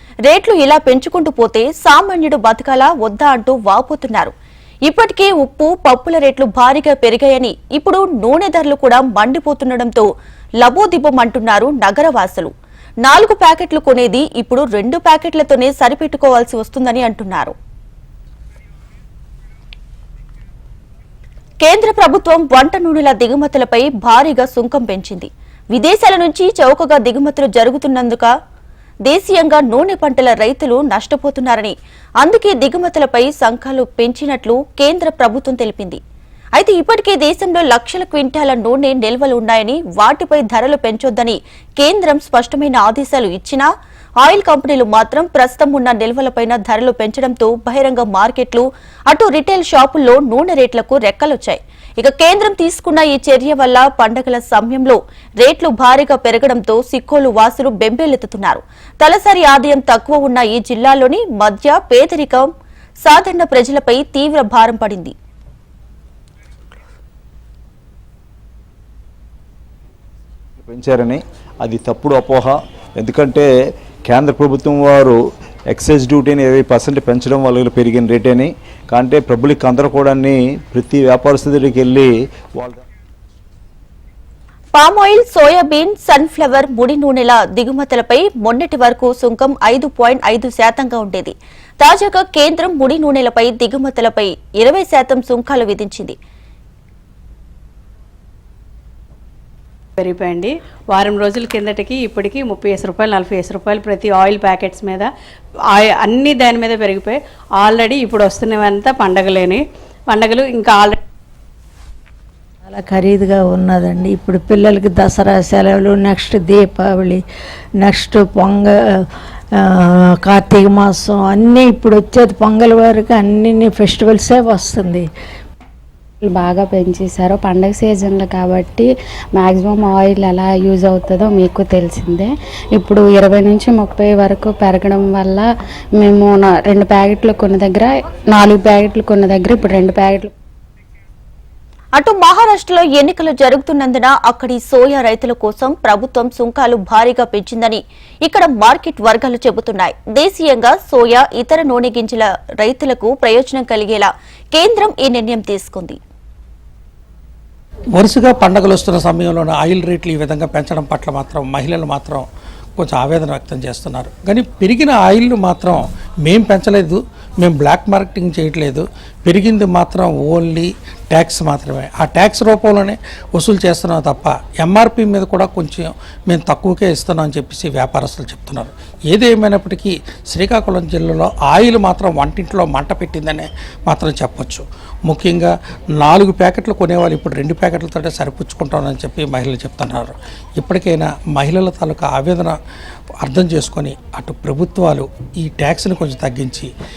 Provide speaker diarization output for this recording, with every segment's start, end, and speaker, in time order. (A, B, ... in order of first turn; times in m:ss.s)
0:00.3-0:04.3 A
0:04.9-0:10.1 A
0:10.6-0:12.5 A
0:13.0-0:17.5 A
0:21.6-0:28.3 A
0:29.1-0:36.0 A
0:36.6-0:43.7 A
0:44.2-1:02.5 A
1:03.0-1:05.1 A
1:10.6-1:13.4 B
1:14.1-1:15.2 B
1:15.7-1:22.8 B
1:24.8-1:36.2 A
1:40.0-1:45.1 C
1:45.7-1:51.0 C
1:52.7-1:57.2 D
1:57.8-1:58.7 D
2:00.3-2:05.0 D
2:06.2-2:15.4 E
2:16.0-2:20.3 E
2:21.9-2:36.0 A
2:38.0-2:42.3 F
2:42.8-3:12.6 F
3:13.2-3:16.7 F